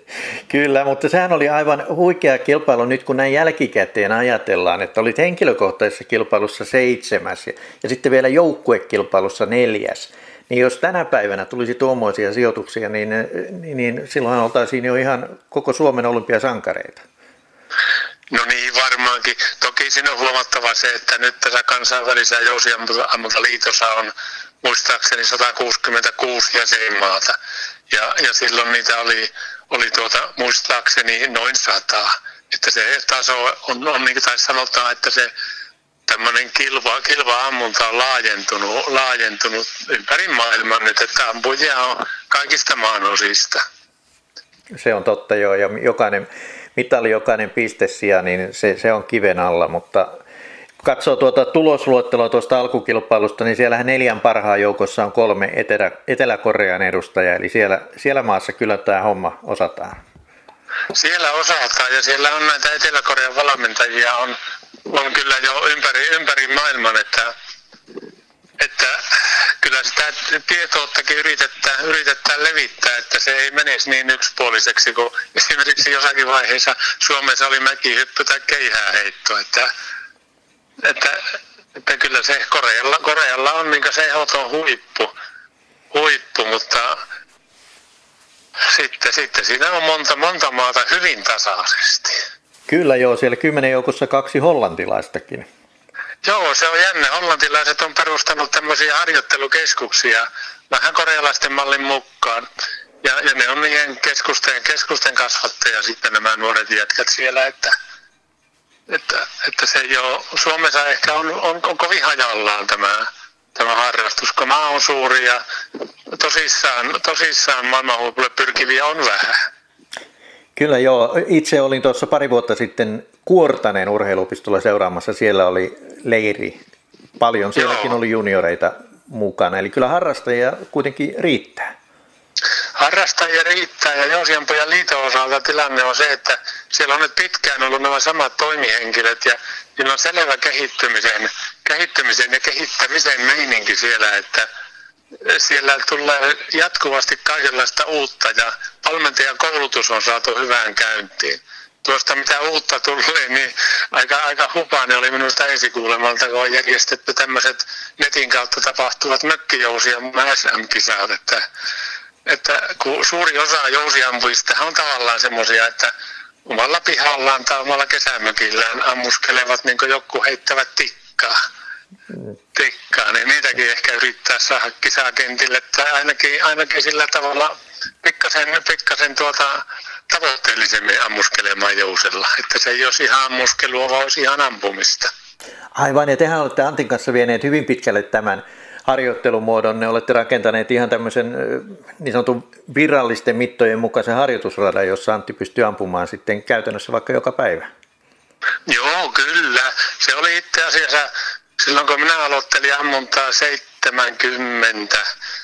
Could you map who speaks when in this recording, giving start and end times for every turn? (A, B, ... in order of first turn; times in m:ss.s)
0:00.5-0:17.0 A
0:18.3-0:24.1 B
0:24.6-0:27.4 B
0:27.9-0:35.3 B
0:36.1-0:43.6 B
0:44.8-0:50.1 A
0:50.8-1:00.0 A
1:00.9-1:07.3 B
1:08.6-1:19.7 B
1:20.8-1:25.1 B
1:25.9-1:27.0 B
1:28.7-1:32.2 B
1:32.7-1:35.5 A
1:36.2-1:42.4 B
1:43.0-1:47.7 B
1:48.9-1:55.4 B
1:56.1-1:59.4 B
2:00.6-2:06.6 A
2:07.2-2:11.7 A
2:07.6-2:08.0 B
2:12.8-2:24.5 B
2:25.2-2:41.4 B
2:42.3-2:45.9 B
2:46.5-2:51.4 B
2:52.6-2:57.5 B
2:58.0-3:05.1 B
3:05.8-3:17.7 A
3:18.7-3:25.0 B